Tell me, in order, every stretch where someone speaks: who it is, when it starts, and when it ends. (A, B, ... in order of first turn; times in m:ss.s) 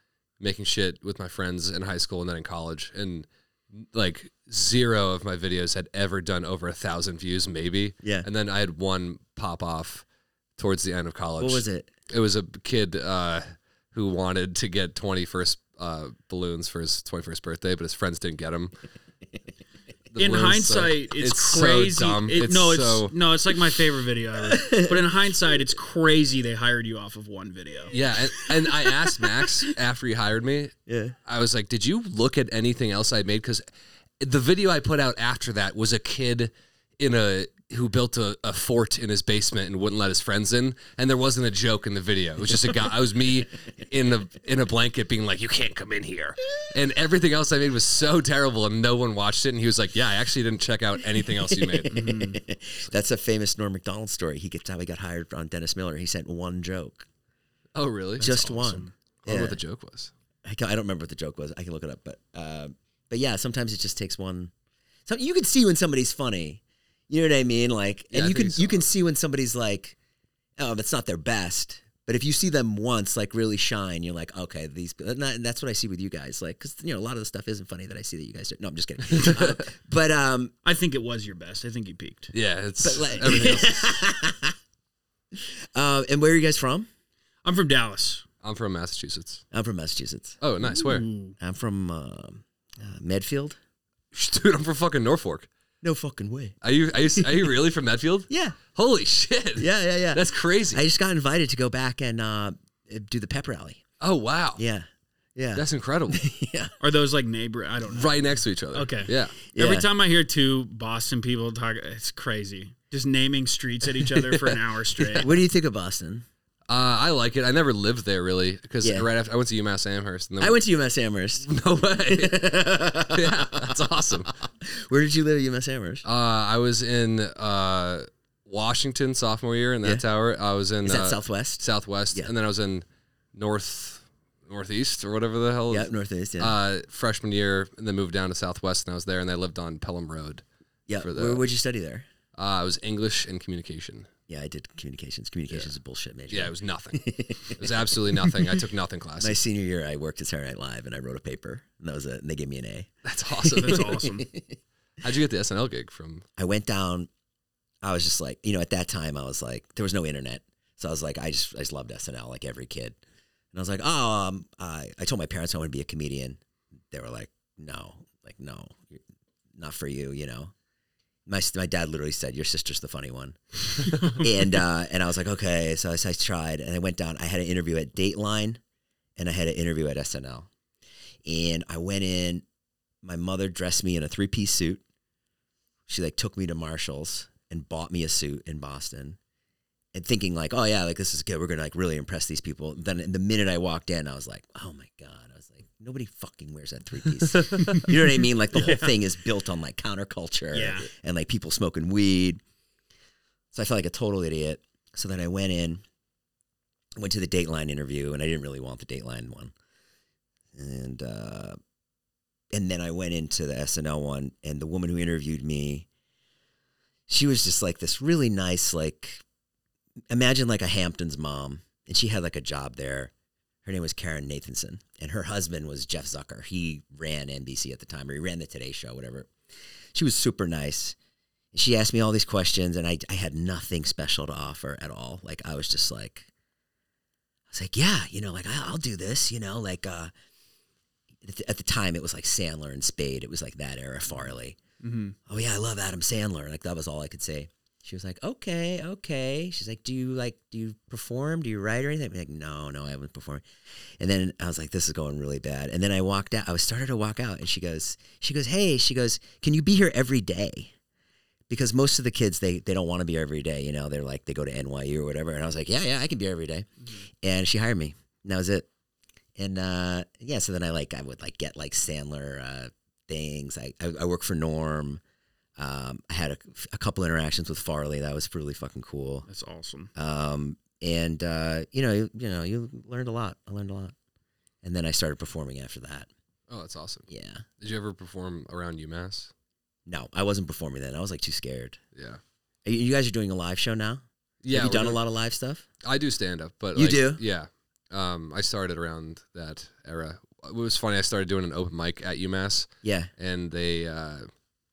0:00.4-0:10.0 A
0:10.6-0:18.7 A
0:11.4-0:11.9 B
0:20.1-0:23.2 A
0:20.2-0:27.9 C
0:24.5-0:25.0 B
0:27.9-0:30.7 A
0:30.9-0:31.2 B
0:31.3-0:33.6 A
0:34.2-0:52.1 A
0:51.5-0:57.1 B
0:51.9-0:52.4 C
0:57.8-0:58.4 A
0:58.2-0:58.9 C
0:58.2-0:59.6 B
0:59.2-1:00.1 A
1:00.4-1:04.5 B
1:05.1-1:10.0 B
1:08.1-1:08.9 A
1:10.6-1:20.5 B
1:19.1-1:19.6 A
1:20.6-1:22.3 C
1:22.3-1:24.0 A
1:22.8-1:24.6 B
1:25.3-1:26.9 B
1:27.4-1:28.2 C
1:28.4-1:29.4 A
1:29.5-1:30.4 B
1:30.4-1:31.1 A
1:30.6-1:31.4 C
1:31.4-1:33.6 B
1:34.1-1:35.5 A
1:35.8-1:36.6 B
1:36.6-1:40.8 A
1:37.2-1:37.5 B
1:38.3-1:38.6 B
1:39.6-1:43.8 B
1:44.0-1:44.6 A
1:44.6-1:46.7 B
1:45.6-1:46.2 A
1:46.8-1:48.1 C
1:47.9-1:49.4 A
1:48.7-1:55.3 C
1:49.5-1:49.9 B
1:55.1-1:56.3 B
1:56.7-2:00.6 A
1:58.8-1:59.1 B
2:00.4-2:01.5 B
2:01.4-2:04.4 A
2:02.1-2:03.8 B
2:04.6-2:06.0 B
2:06.0-2:15.9 A
2:10.8-2:12.3 B
2:15.7-2:16.6 B
2:16.4-2:20.4 A
2:20.9-2:22.1 B
2:21.0-2:21.5 A
2:22.4-2:24.1 A
2:24.3-2:28.5 B
2:26.3-2:29.4 A
2:29.2-2:32.9 B
2:33.0-2:34.1 A
2:33.6-2:34.6 B
2:33.6-2:34.3 C
2:35.0-2:36.2 A
2:36.4-2:37.1 B
2:37.8-2:43.0 B
2:43.5-2:46.4 B
2:46.9-2:49.0 B
2:49.6-2:50.5 B
2:51.3-2:58.6 B
2:59.2-3:00.5 B
3:01.2-3:02.4 B
3:03.0-3:04.8 B
3:05.9-3:09.2 B
3:09.9-3:22.4 B
3:17.5-3:17.8 A
3:17.6-3:18.0 C
3:18.5-3:18.9 C
3:20.5-3:20.9 C
3:23.5-3:25.8 B
3:27.0-3:29.5 B
3:30.5-3:31.6 B
3:32.5-3:35.9 B
3:37.1-3:39.2 B
3:40.1-3:43.1 B
3:43.6-3:49.3 B
3:49.9-3:51.0 B
3:51.5-3:56.3 B
3:57.5-4:00.1 B
4:01.2-4:04.6 B
4:04.8-4:05.2 C
4:05.3-4:13.4 B
4:14.0-4:20.7 B
4:21.5-4:26.7 B
4:27.2-4:28.7 B
4:29.4-4:35.0 B
4:35.6-4:39.3 B
4:39.3-4:39.9 C
4:40.0-4:44.0 B
4:44.6-4:46.1 B
4:46.5-4:47.1 A
4:47.1-4:47.4 B
4:47.6-4:49.3 A
4:49.9-4:51.8 B
4:52.0-4:52.2 A
4:52.6-4:55.6 B
4:54.4-4:55.0 A
4:55.8-5:04.3 A
4:56.8-4:57.2 B
5:02.8-5:03.1 B